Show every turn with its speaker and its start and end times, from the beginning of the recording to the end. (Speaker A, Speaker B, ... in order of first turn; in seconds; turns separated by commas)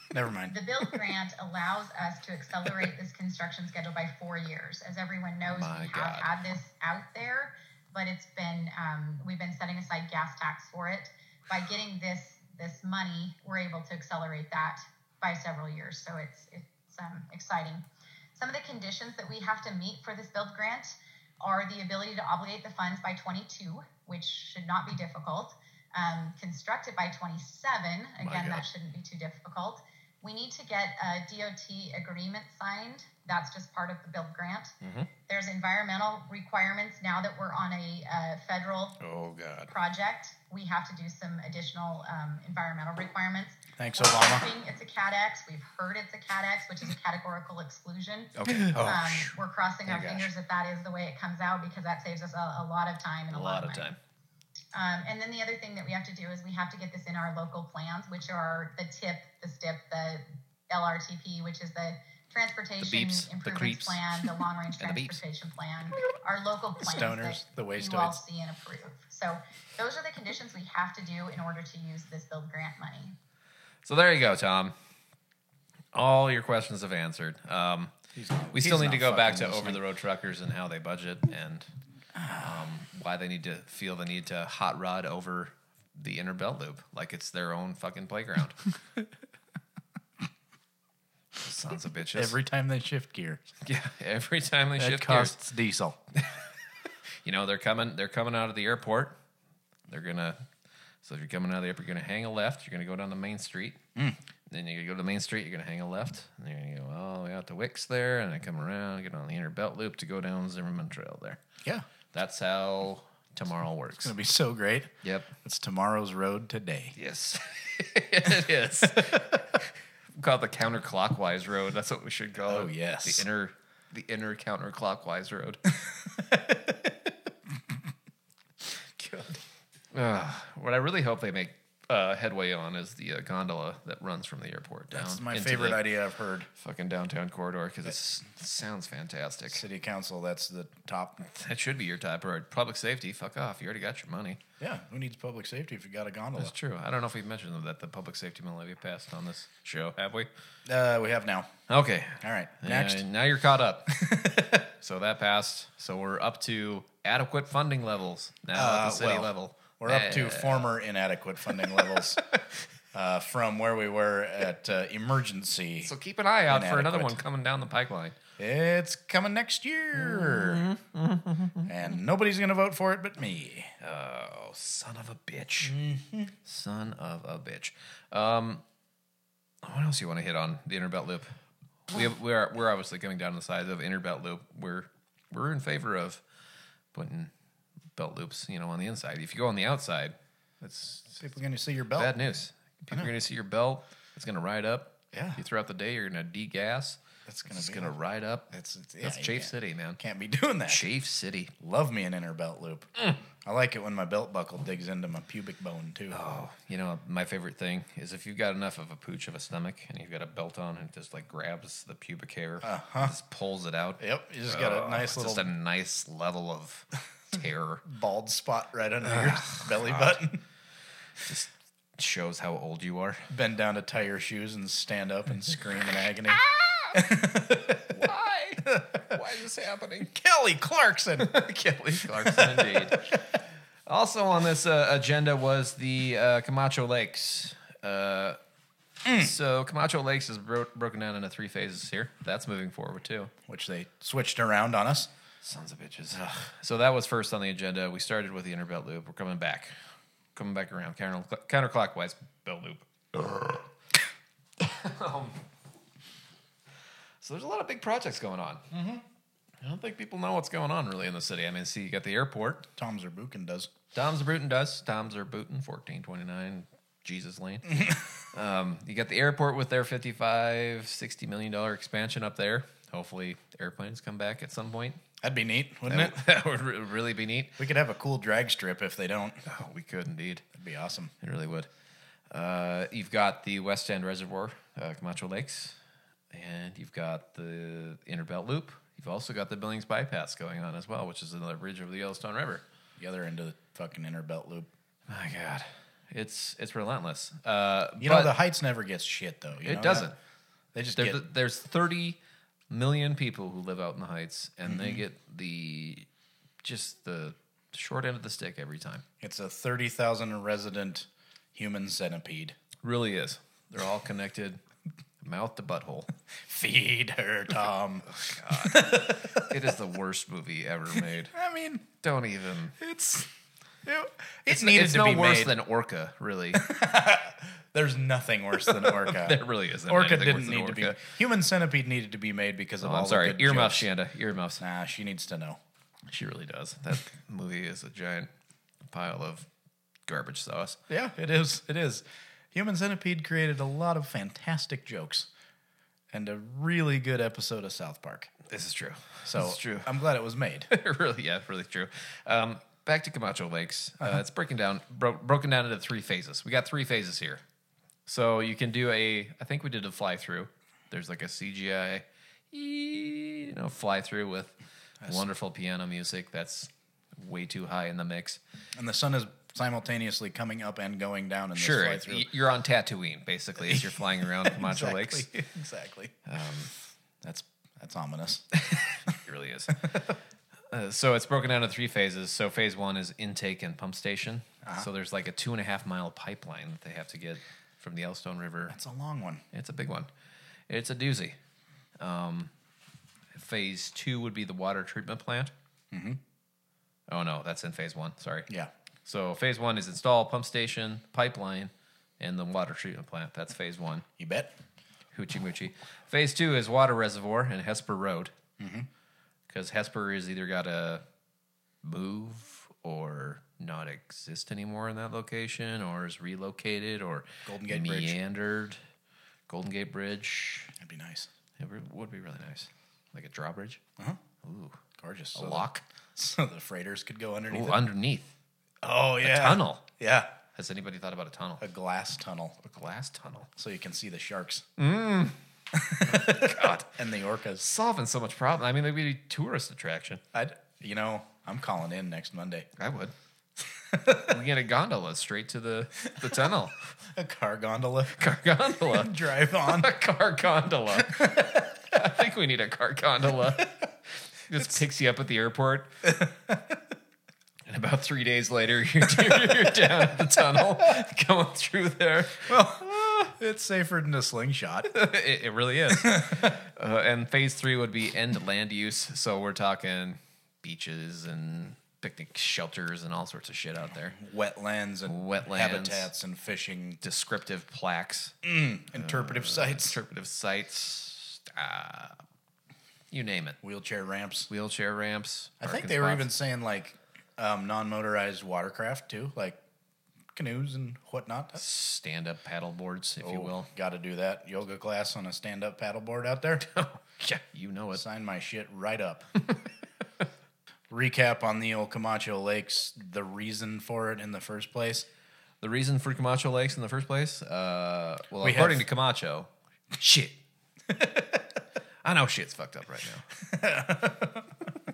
Speaker A: 0.1-0.6, Speaker B: 0.5-34.8, Speaker C: 5.4-6.3, Speaker C: 28.2-28.6, Speaker C: 34.8-35.1, Speaker B: 35.3-39.0, Speaker C: 39.0-39.7, Speaker B: 39.7-53.9, Speaker A: 43.8-44.5, Speaker C: 48.4-49.0, Speaker A: 48.5-49.3, Speaker A: 49.9-50.3, Speaker C: 53.3-54.0, Speaker B: 54.7-73.2, Speaker C: 62.8-64.3, Speaker C: 64.8-65.2, Speaker A: 66.8-68.2, Speaker C: 73.8-74.8, Speaker C: 75.9-77.9, Speaker A: 78.2-79.8, Speaker C: 78.5-81.7, Speaker A: 82.2-82.7, Speaker C: 82.4-88.6, Speaker C: 91.4-92.4, Speaker A: 92.2-93.5, Speaker C: 93.6-95.4, Speaker A: 94.8-96.0, Speaker C: 97.2-99.2, Speaker C: 99.9-100.4, Speaker C: 101.0-103.8, Speaker C: 104.5-111.4, Speaker C: 112.1-114.1, Speaker A: 114.0-117.0, Speaker C: 115.0-115.3, Speaker C: 117.0-125.6, Speaker A: 122.5-123.3, Speaker A: 126.3-126.9, Speaker A: 129.0-129.4, Speaker C: 129.9-135.8, Speaker A: 134.9-136.5, Speaker C: 136.6-139.6, Speaker A: 139.5-141.2, Speaker C: 141.2-144.4, Speaker A: 144.6-146.5, Speaker C: 146.4-150.3, Speaker A: 150.7-151.5, Speaker C: 151.7-154.0, Speaker A: 152.2-153.1, Speaker A: 153.9-154.6, Speaker C: 154.6-160.7, Speaker A: 158.5-162.2, Speaker A: 162.9-165.9, Speaker C: 165.8-168.2, Speaker A: 166.5-167.2, Speaker A: 168.4-170.7, Speaker C: 170.0-171.7, Speaker A: 171.7-173.7, Speaker C: 173.8-175.8, Speaker A: 175.6-176.3, Speaker C: 176.4-178.6, Speaker C: 179.6-181.3, Speaker C: 181.9-186.2, Speaker C: 186.9-187.3, Speaker C: 187.9-191.2, Speaker A: 191.1-192.2, Speaker C: 191.9-198.5, Speaker A: 195.1-195.4, Speaker A: 197.3-197.9, Speaker A: 198.5-200.9, Speaker C: 199.0-200.0, Speaker C: 200.7-201.5, Speaker A: 201.6-202.9, Speaker A: 203.4-206.2, Speaker C: 206.1-217.8, Speaker A: 212.6-213.1, Speaker A: 214.0-215.5, Speaker A: 217.8-220.4, Speaker C: 219.1-220.2, Speaker C: 221.2-223.3, Speaker A: 223.3-226.4, Speaker C: 226.3-227.0, Speaker A: 226.9-227.9, Speaker C: 227.8-230.1, Speaker A: 228.7-229.0, Speaker A: 230.1-231.3, Speaker C: 231.2-233.2, Speaker A: 232.0-233.2, Speaker C: 233.9-238.4, Speaker A: 239.0-239.3, Speaker C: 239.2-243.3, Speaker A: 243.5-245.1, Speaker C: 245.4-249.7, Speaker C: 250.3-253.6, Speaker C: 254.6-255.4, Speaker C: 257.2-258.7, Speaker A: 258.7-259.0, Speaker C: 259.6-262.7, Speaker A: 262.8-263.7, Speaker C: 263.9-275.0, Speaker A: 275.2-276.2, Speaker C: 275.9-277.6, Speaker A: 277.6-279.4, Speaker C: 279.4-280.4, Speaker A: 280.5-281.1, Speaker C: 281.2-281.7, Speaker C: 282.3-285.8, Speaker C: 286.3-292.6, Speaker A: 293.0-294.7, Speaker C: 295.1-298.3, Speaker A: 298.0-300.1, Speaker C: 299.6-300.2, Speaker A: 300.7-301.2, Speaker C: 301.0-302.2, Speaker C: 302.7-306.1, Speaker A: 304.7-305.0, Speaker C: 306.6-309.0, Speaker A: 309.2-312.6, Speaker C: 312.8-314.6, Speaker C: 315.2-316.1, Speaker A: 316.4-319.6, Speaker C: 318.1-321.4, Speaker A: 320.9-321.9, Speaker C: 322.0-322.8, Speaker A: 322.8-323.3, Speaker A: 323.9-325.6, Speaker C: 324.5-326.6, Speaker A: 326.5-333.9, Speaker C: 328.7-331.0, Speaker C: 332.8-334.6, Speaker A: 334.6-335.6, Speaker C: 336.1-338.3, Speaker C: 338.9-339.5, Speaker C: 340.1-340.8, Speaker A: 340.9-345.3, Speaker A: 346.1-348.3, Speaker C: 348.5-350.0, Speaker A: 349.2-350.7, Speaker C: 350.7-357.4, Speaker C: 358.1-364.5, Speaker A: 365.0-365.3, Speaker C: 365.1-368.4, Speaker A: 368.8-372.3, Speaker C: 371.6-375.3, Speaker A: 373.6-376.1, Speaker C: 376.3-376.7, Speaker A: 377.2-378.5, Speaker C: 378.6-380.2, Speaker C: 380.7-388.8, Speaker A: 384.6-384.9, Speaker A: 388.7-389.4, Speaker C: 389.5-390.1, Speaker C: 390.7-391.4, Speaker C: 392.0-392.5, Speaker C: 393.3-395.5, Speaker A: 395.9-396.2, Speaker C: 397.1-398.5, Speaker C: 399.1-404.1, Speaker A: 404.2-404.5, Speaker C: 405.1-408.3, Speaker A: 408.6-408.9, Speaker C: 409.5-411.0, Speaker C: 411.8-418.8, Speaker A: 417.5-418.2, Speaker C: 419.5-420.7, Speaker A: 420.8-421.3, Speaker C: 421.6-423.8, Speaker C: 424.4-424.8, Speaker A: 425.0-427.8, Speaker C: 425.4-425.8, Speaker C: 427.5-428.3, Speaker A: 428.8-430.3, Speaker C: 429.2-429.9, Speaker C: 430.6-431.6, Speaker A: 431.6-432.6, Speaker C: 432.6-433.5, Speaker A: 433.6-434.6, Speaker C: 434.8-435.4, Speaker A: 435.7-437.7, Speaker C: 436.0-437.0, Speaker C: 437.6-440.2, Speaker A: 440.3-442.7, Speaker C: 442.8-443.1, Speaker A: 443.9-444.4, Speaker C: 444.3-446.8, Speaker A: 447.1-448.2, Speaker C: 448.1-453.8, Speaker A: 448.8-449.9, Speaker A: 451.0-451.7, Speaker C: 454.5-455.9, Speaker A: 454.6-454.8, Speaker A: 456.0-456.8, Speaker C: 457.7-463.3, Speaker A: 459.2-459.7, Speaker A: 460.4-460.9, Speaker A: 462.4-464.9, Speaker C: 464.9-474.2, Speaker A: 465.9-466.5, Speaker A: 474.1-477.0, Speaker C: 475.1-476.1, Speaker C: 477.0-478.4, Speaker A: 478.4-480.0, Speaker C: 478.9-482.2, Speaker C: 483.1-483.6, Speaker A: 483.6-484.5, Speaker C: 484.5-486.3, Speaker A: 485.6-489.6, Speaker A: 490.3-491.6, Speaker C: 491.6-493.7, Speaker A: 493.2-496.6, Speaker C: 496.6-498.0, Speaker A: 497.9-499.3, Speaker A: 500.9-505.1, Speaker C: 505.6-510.4, Speaker A: 508.4-508.9, Speaker C: 512.0-513.2, Speaker A: 513.4-514.6